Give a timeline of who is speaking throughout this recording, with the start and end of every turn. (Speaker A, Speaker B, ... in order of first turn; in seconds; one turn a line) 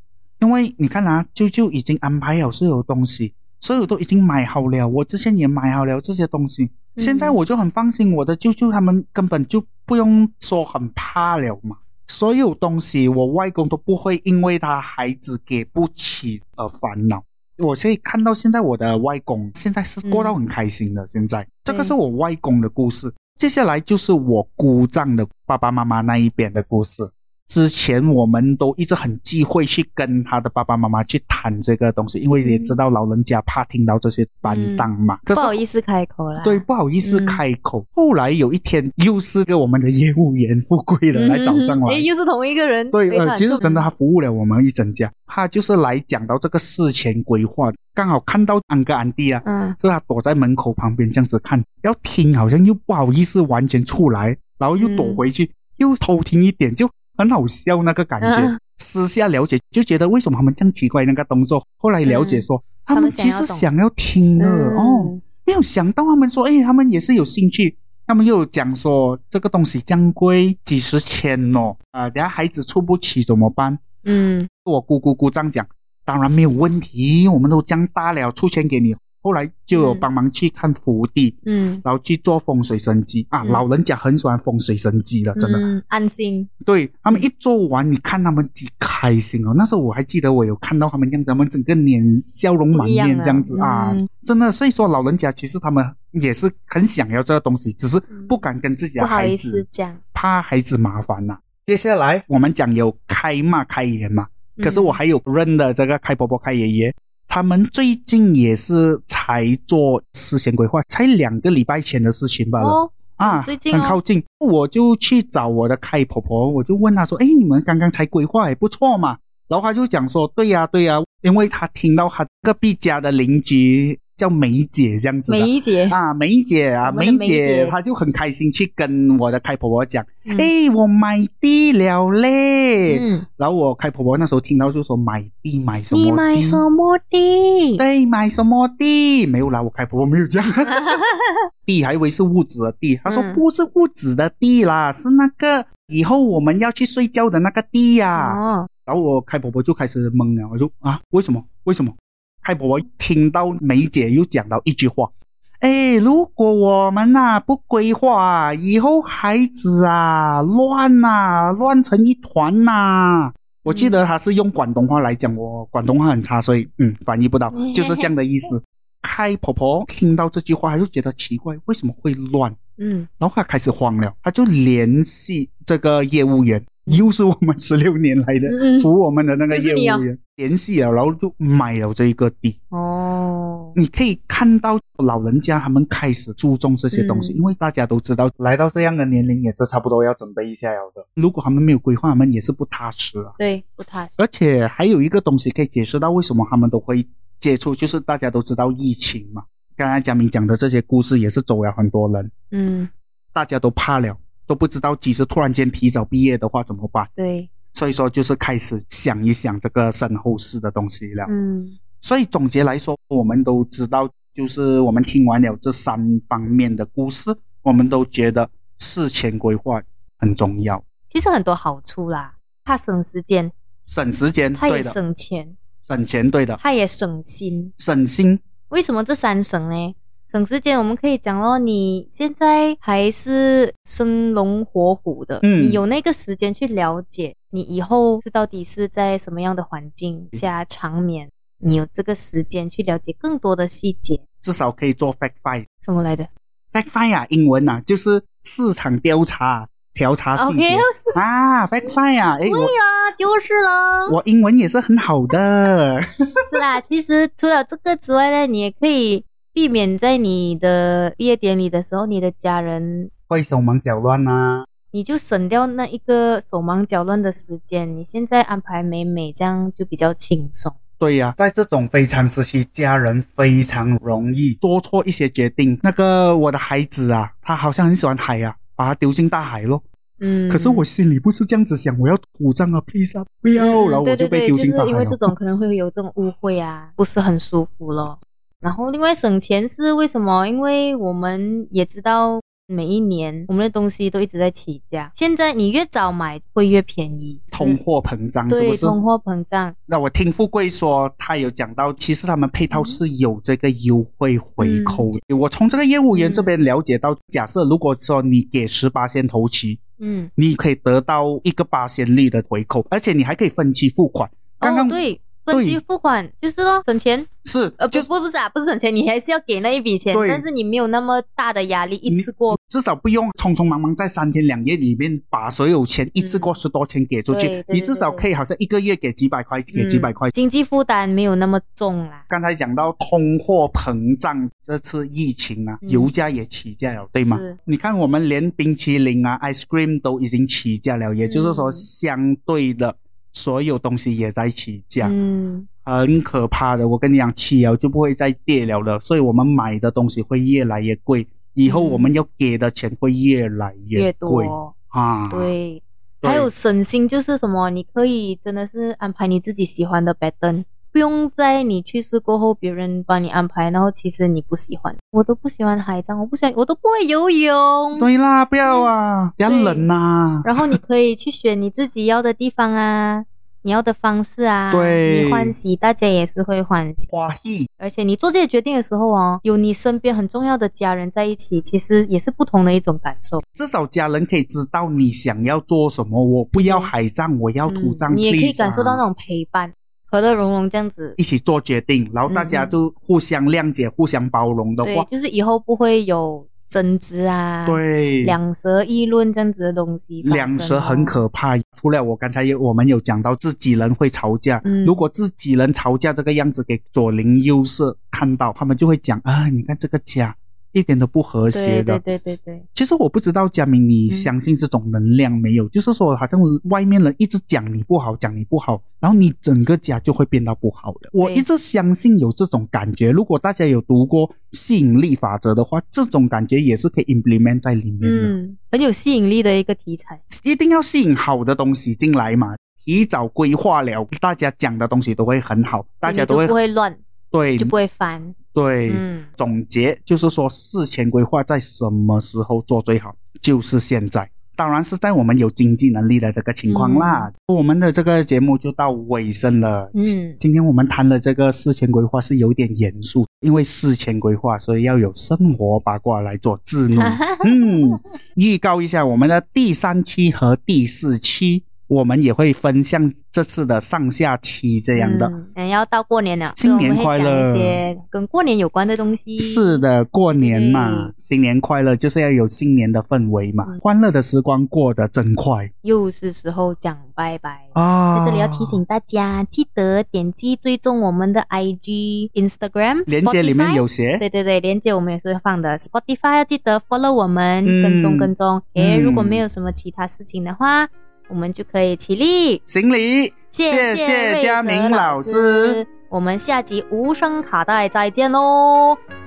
Speaker A: 0.4-35.6
Speaker B: 7.0-7.4
Speaker B: 20.1-20.4
Speaker B: 21.7-21.9
Speaker B: 32.4-32.8
Speaker B: 34.5-37.4
Speaker A: 36.4-42.1
Speaker B: 41.1-43.9
Speaker A: 42.9-73.8
Speaker B: 49.4-49.8
Speaker B: 54.8-55.2
Speaker B: 58.2-58.6
Speaker B: 62.0-63.7
Speaker B: 64.4-65.2
Speaker B: 74.0-74.5
Speaker A: 74.7-85.7
Speaker B: 79.7-80.1
Speaker B: 81.5-81.8
Speaker B: 85.4-86.5
Speaker A: 86.6-136.6
Speaker B: 92.7-94.1
Speaker B: 98.1-98.4
Speaker B: 99.0-100.0
Speaker B: 104.6-105.0
Speaker B: 112.6-114.0
Speaker B: 125.3-126.0
Speaker B: 126.8-127.8
Speaker B: 130.3-130.5
Speaker B: 132.9-133.2
Speaker B: 135.9-137.8
Speaker A: 137.8-141.0
Speaker B: 140.7-141.4
Speaker A: 141.7-172.6
Speaker B: 143.1-143.4
Speaker B: 148.2-148.7
Speaker B: 163.7-164.0
Speaker B: 167.5-168.1
Speaker B: 172.8-173.1
Speaker A: 173.2-182.6
Speaker B: 178.5-178.9
Speaker B: 179.5-180.1
Speaker B: 182.7-183.8
Speaker A: 183.8-193.3
Speaker B: 186.9-187.4
Speaker B: 193.4-194.1
Speaker A: 194.2-202.3
Speaker B: 202.5-202.9
Speaker A: 203.3-207.1
Speaker B: 207.2-207.5
Speaker A: 207.7-211.3
Speaker B: 211.3-211.8
Speaker A: 212.0-220.8
Speaker B: 221.1-223.5
Speaker A: 223.9-225.0
Speaker B: 224.6-225.6
Speaker A: 225.9-226.6
Speaker B: 226.6-227.7
Speaker A: 227.8-228.4
Speaker B: 228.7-244.2
Speaker A: 235.4-235.8
Speaker A: 244.4-245.7
Speaker B: 245.8-246.3
Speaker A: 246.7-252.7
Speaker B: 250.4-251.2
Speaker B: 252.4-254.2
Speaker A: 254.1-256.5
Speaker B: 256.5-263.1
Speaker A: 263.3-264.7
Speaker B: 264.9-270.8
Speaker A: 271.0-279.8
Speaker B: 280.2-280.9
Speaker A: 280.5-285.3
Speaker B: 283.6-297.8
Speaker A: 297.5-299.0
Speaker B: 298.5-299.8
Speaker A: 299.9-309.8
Speaker B: 302.7-303.0
Speaker B: 304.6-305.1
Speaker B: 306.1-306.5
Speaker B: 310.0-310.3
Speaker A: 310.4-315.8
Speaker B: 314.6-317.3
Speaker A: 317.4-318.1
Speaker B: 317.8-322.6
Speaker A: 320.1-320.4
Speaker A: 322.1-330.3
Speaker B: 326.2-326.6
Speaker B: 327.3-328.2
Speaker B: 329.7-332.2
Speaker A: 332.3-345.1
Speaker B: 335.8-336.1
Speaker B: 337.2-337.6
Speaker B: 341.2-341.9
Speaker B: 345.0-345.7
Speaker A: 345.9-355.5
Speaker B: 351.7-352.1
Speaker B: 353.9-354.7
Speaker B: 355.3-368.1
Speaker A: 356.2-356.5
Speaker A: 368.0-370.8
Speaker B: 368.6-368.9
Speaker B: 369.5-369.9
Speaker B: 370.4-377.1
Speaker A: 374.7-375.6
Speaker A: 377.1-377.7
Speaker B: 377.8-383.4
Speaker A: 383.5-389.0
Speaker B: 386.6-386.9
Speaker B: 387.7-391.2
Speaker A: 391.2-395.1
Speaker B: 392.3-392.8
Speaker B: 394.8-401.2
Speaker A: 397.7-398.4
Speaker A: 400.2-412.0
Speaker B: 404.6-405.0
Speaker B: 411.5-412.6
Speaker A: 412.8-428.4
Speaker B: 428.0-430.2
Speaker A: 430.3-436.6
Speaker B: 436.0-437.0
Speaker A: 437.3-437.7
Speaker B: 437.6-438.4
Speaker A: 438.5-465.4
Speaker B: 438.9-439.3
Speaker B: 446.7-447.3
Speaker B: 449.9-450.4
Speaker B: 456.9-458.0
Speaker B: 464.9-471.1
Speaker A: 466.6-467.8
Speaker A: 469.4-475.7
Speaker B: 475.8-492.6
Speaker A: 477.8-478.8
Speaker A: 483.1-484.2
Speaker A: 487.6-489.4
Speaker A: 492.7-495.8
Speaker B: 493.5-499.0